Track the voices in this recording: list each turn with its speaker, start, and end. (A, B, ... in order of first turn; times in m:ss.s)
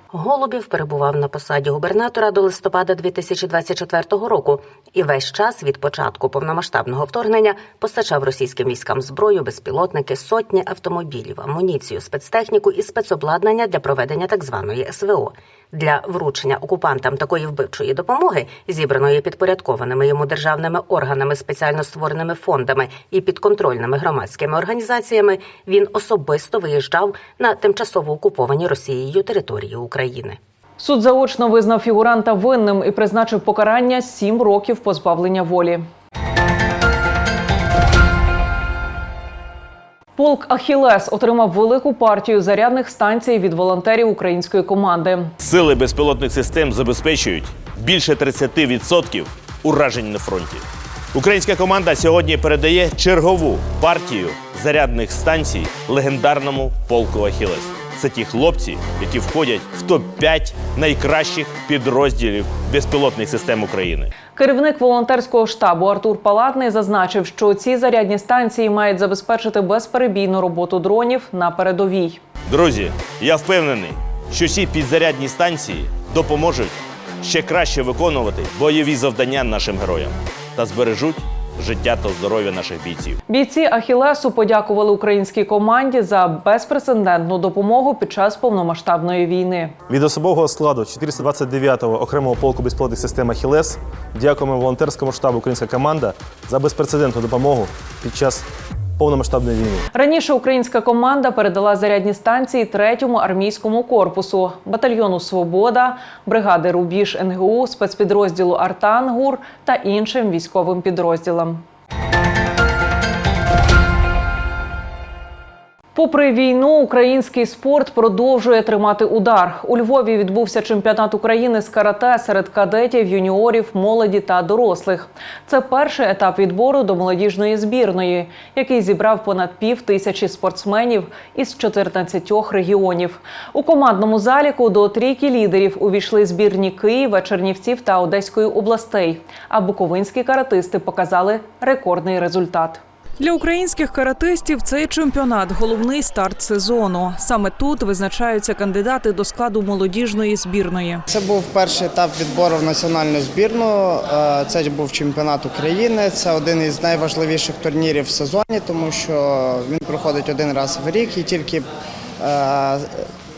0:00.1-0:30.4 A
0:30.8-0:35.8 B
0:40.2-0:45.3 B
0:45.4-0:50.6 C
0:51.1-1:04.1 C
1:04.4-1:12.2 B
1:12.5-1:23.1 C
1:23.3-1:29.7 B
1:29.9-1:38.4 D
1:39.0-1:39.8 D
1:39.9-1:51.6 B
1:55.9-2:31.0 B
2:31.1-2:41.7 E
2:42.2-2:43.0 E